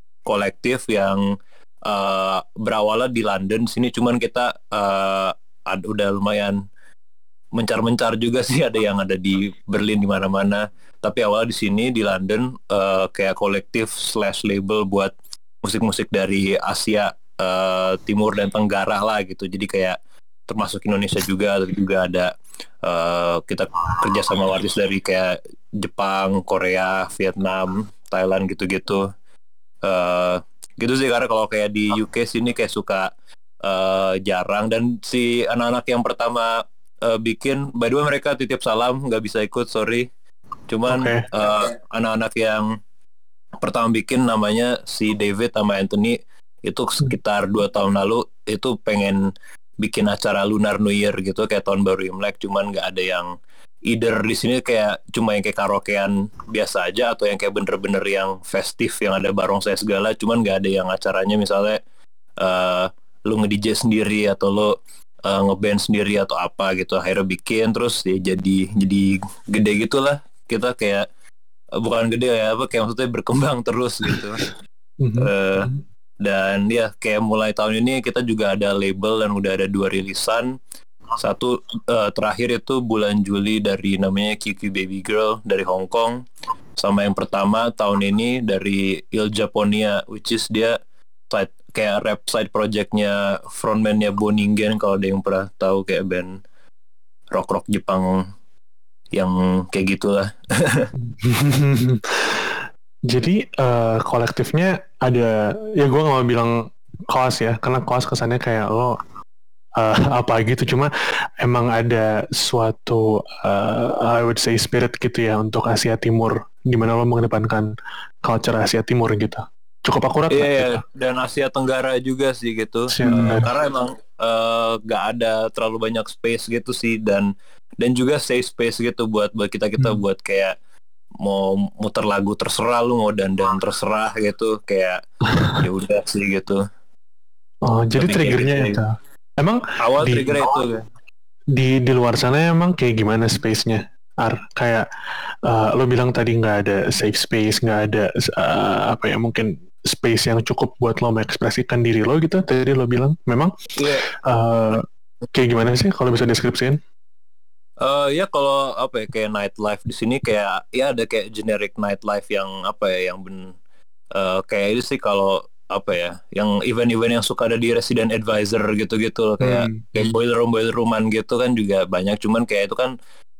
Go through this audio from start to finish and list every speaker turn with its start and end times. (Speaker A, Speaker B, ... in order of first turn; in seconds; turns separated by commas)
Speaker A: 0.2-1.3, Speaker A: 1.9-6.6, Speaker A: 7.5-19.9, Speaker A: 20.5-22.3, Speaker A: 22.8-29.1, Speaker A: 29.8-33.1, Speaker A: 33.6-40.1, Speaker A: 40.7-42.8, Speaker B: 40.9-41.3, Speaker A: 43.6-53.3, Speaker A: 53.9-61.8, Speaker A: 62.4-71.0, Speaker A: 71.8-74.4, Speaker B: 75.0-75.8, Speaker A: 75.2-75.7, Speaker A: 76.2-80.6, Speaker A: 81.2-86.2, Speaker A: 86.8-90.8, Speaker A: 91.3-96.4, Speaker A: 97.3-98.3, Speaker A: 99.1-100.9, Speaker B: 101.1-109.0, Speaker B: 109.8-110.9, Speaker B: 111.4-117.7, Speaker B: 118.2-120.8, Speaker A: 120.3-130.5, Speaker B: 122.9-123.5, Speaker A: 131.2-135.0, Speaker A: 135.6-136.6, Speaker B: 137.6-140.6, Speaker A: 138.0-138.8, Speaker A: 139.8-140.8, Speaker B: 141.5-144.8, Speaker B: 145.5-153.5, Speaker A: 153.8-154.1, Speaker B: 154.1-156.8, Speaker A: 157.8-163.5, Speaker A: 164.1-172.9, Speaker B: 169.4-169.9